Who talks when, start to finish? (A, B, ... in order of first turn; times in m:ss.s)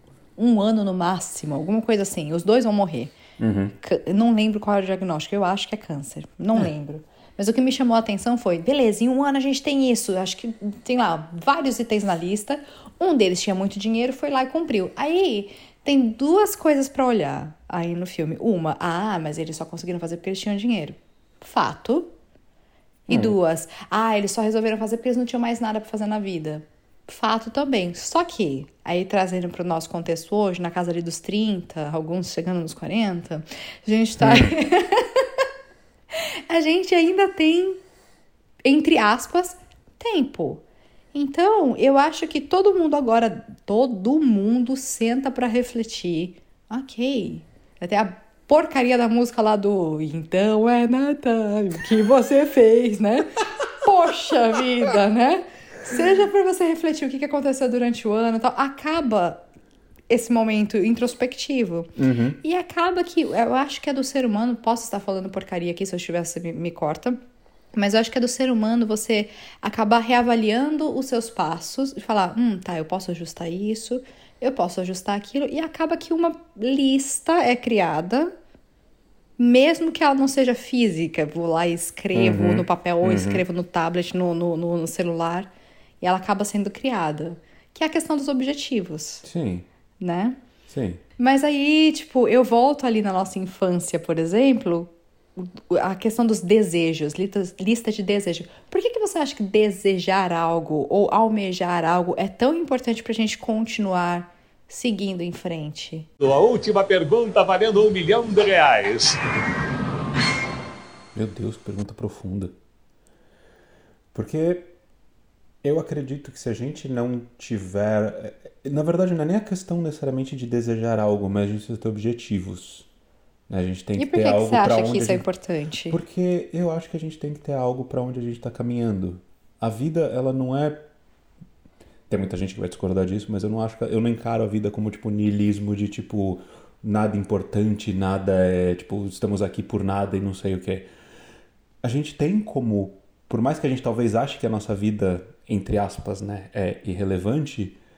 0:00.4-0:03.1 A
0:03.4-0:03.7 B
0:03.8-0:22.1 A
0:23.1-0:35.2 A
0:23.1-0:23.4 B
0:34.2-0:34.5 B
0:36.1-0:37.8 A
0:38.6-0:40.6 A
0:41.1-0:59.4 A
1:00.1-1:01.9 A
1:02.0-1:02.4 B
1:02.4-1:07.2 A
1:07.7-1:18.3 A
1:19.4-1:25.5 A
1:22.1-1:23.4 B
1:26.0-1:29.2 A
1:29.2-1:29.7 B
1:30.0-1:30.4 A
1:30.7-1:31.0 B
1:31.2-1:46.1 A
1:46.2-1:49.2 C
1:51.1-1:52.5 B
1:54.1-1:54.7 B
1:55.6-2:02.9 B
2:03.5-2:05.2 B
2:04.0-2:06.0 A
2:05.9-2:10.8 B
2:12.1-2:20.9 B
2:21.8-2:27.8 B